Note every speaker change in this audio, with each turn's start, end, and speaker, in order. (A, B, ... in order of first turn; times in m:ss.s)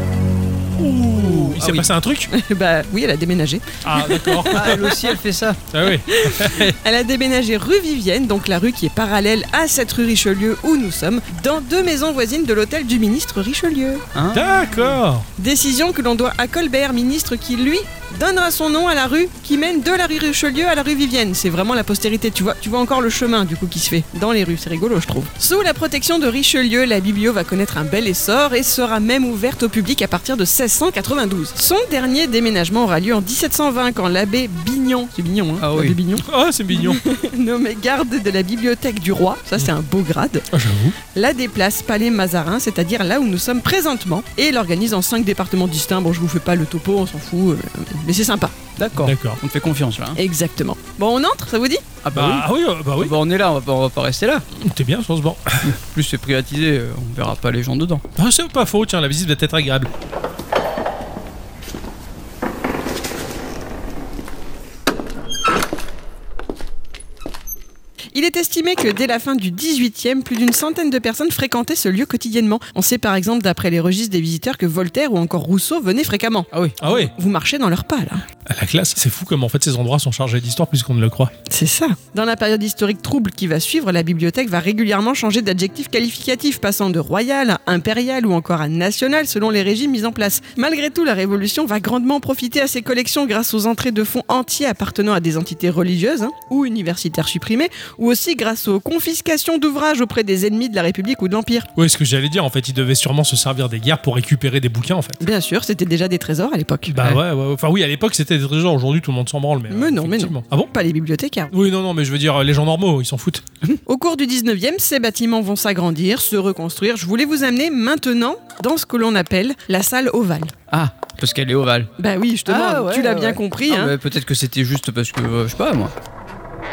0:00.8-0:02.3 A
0:01.1-0:01.9 B
0:02.3-0:05.0 C
0:03.8-0:04.9 A
0:04.5-0:05.6 B
0:05.7-0:06.8 A
0:06.1-0:14.0 C
0:14.1-0:15.0 B
0:14.3-0:15.3 A
0:15.4-0:40.5 C
0:35.6-0:36.0 B
0:36.2-0:37.0 A
0:40.5-0:41.0 A
0:41.1-0:48.5 C
0:48.8-0:50.2 B
0:48.9-0:49.4 A
0:50.2-0:51.8 C
0:52.0-0:52.5 B
0:52.1-0:53.1 A
0:53.0-0:54.4 B
0:54.6-0:55.7 A
0:55.6-0:58.0 B
0:58.2-0:59.9 A
1:08.1-1:18.2 C
1:16.8-1:17.1 A
1:18.5-1:21.3 A
1:21.5-1:41.7 C
1:41.8-1:45.2 A
1:45.2-1:47.0 C
1:46.9-1:50.7 A
1:49.7-1:51.5 C
1:51.5-1:53.4 A
1:53.8-2:00.5 C
2:00.7-2:01.9 B
2:02.0-2:03.9 C
2:02.4-2:05.9 B